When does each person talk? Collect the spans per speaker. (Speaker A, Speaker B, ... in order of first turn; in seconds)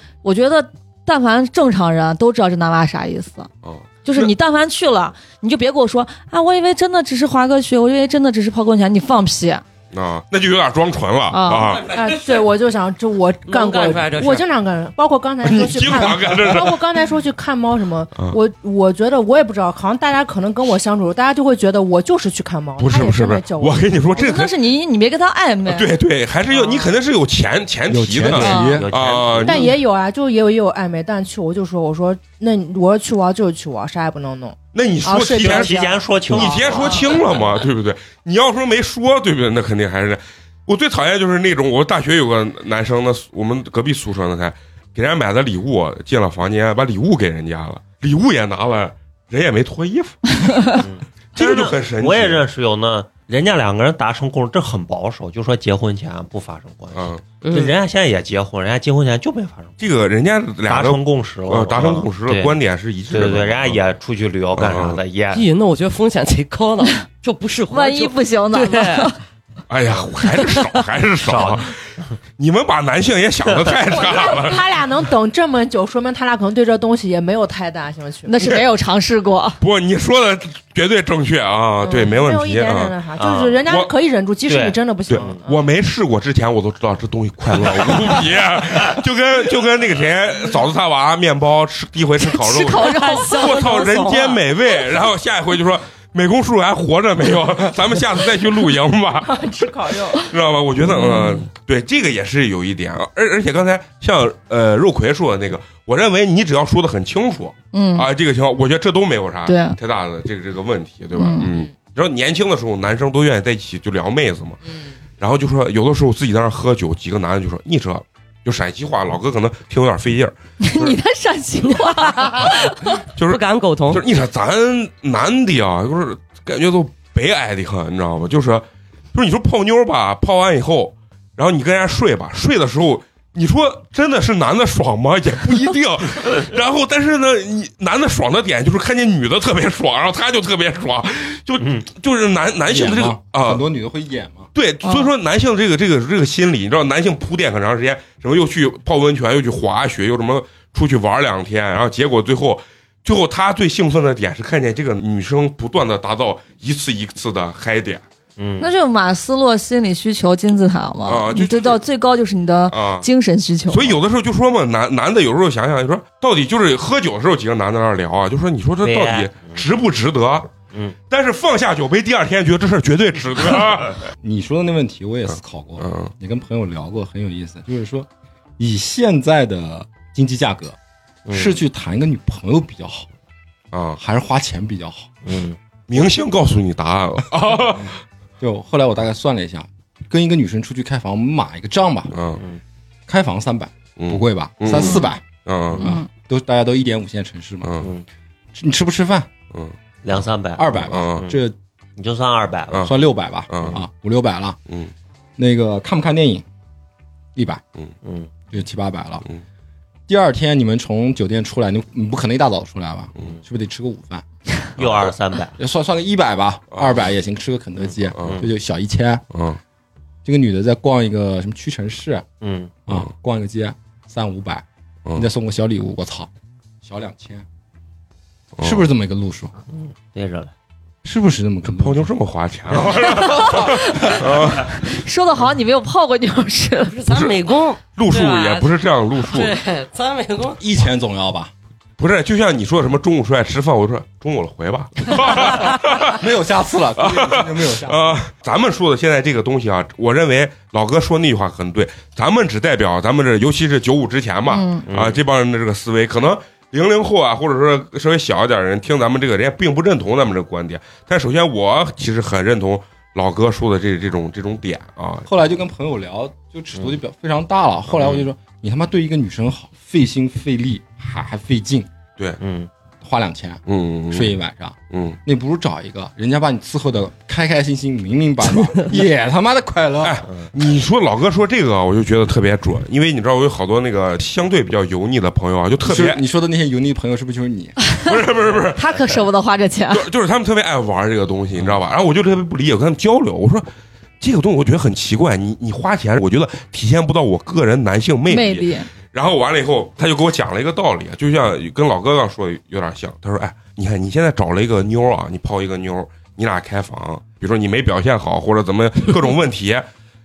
Speaker A: 0.2-3.5, 4.0-9.6, 11.3-11.8, 24.2-25.9, 28.4-28.8, 67.7-69.2, 78.2-79.6, 92.2-93.9, 101.0-101.4, 107.7-108.1, 109.5-109.8, 111.2-111.5, 120.6-122.9, 144.8-145.1, 158.6-164.0, 194.8-195.1, 195.8-196.1, 233.0-236.9, 254.5-254.8, 288.8-290.1, 298.3-298.9
Speaker B: 3.6-4.3, 9.9-11.9, 15.4-16.9, 22.8-24.6, 25.6-29.8, 34.7-50.8, 51.3-52.5, 56.9-57.2, 59.8-63.8, 64.5-65.0, 69.7-71.8, 72.4-74.7, 79.6-83.0, 83.7-83.9, 85.1-99.5, 100.1-114.6, 115.2-121.0, 123.2-143.6, 144.6-158.0, 161.1-161.8, 162.7-163.1, 163.7-170.6, 171.1-174.0, 175.3-176.1, 183.7-184.0, 185.9-188.0, 192.1-192.4, 194.0-195.9, 200.9-201.3, 202.7-203.0, 203.5-203.8, 214.8-215.2, 216.7-217.0, 218.0-218.4, 219.3-219.6, 228.6-228.9, 231.7-234.9, 237.1-239.6, 242.0-246.2, 247.0-265.3, 267.9-268.3, 273.7-274.4, 274.9-275.2, 280.0-286.2, 288.0-289.1, 289.9-293.7, 294.2-309.9
Speaker C: 11.9-24.4, 26.5-26.9, 29.4-37.1, 73.9-78.6, 81.8-85.7, 99.2-100.3, 111.4-111.7
Speaker D: 12.0-12.4, 13.5-14.4, 57.4-57.8, 65.3-69.2, 92.6-94.4, 121.6-122.7, 123.2-124.0, 236.9-240.6
Speaker E: 27.9-28.9, 142.7-144.5, 174.2-180.8, 181.3-183.1, 184.0-185.2, 188.4-192.1, 193.1-195.2, 195.8-197.8, 198.5-199.3, 200.6-201.6, 202.8-204.6, 205.4-206.4, 207.3-207.6, 208.5-209.2, 210.1-214.2, 215.6-219.2, 220.2-222.3, 222.9-226.3, 226.8-227.5, 228.6-229.5, 231.0-232.1, 240.6-241.5, 245.3-248.2, 265.3-271.9, 273.0-280.2, 285.8-287.8
Speaker F: 28.2-29.8, 35.4-37.6, 50.7-59.8, 60.7-62.6, 63.1-65.5, 71.2-72.1, 83.2-83.6, 84.5-85.4, 158.4-158.7, 168.8-169.6, 181.3-181.6, 185.2-185.6, 200.0-201.4, 202.0-202.9, 208.0-208.3, 214.8-215.6, 218.2-218.5, 222.4-222.7, 229.7-230.5, 254.9-255.2, 272.4-272.7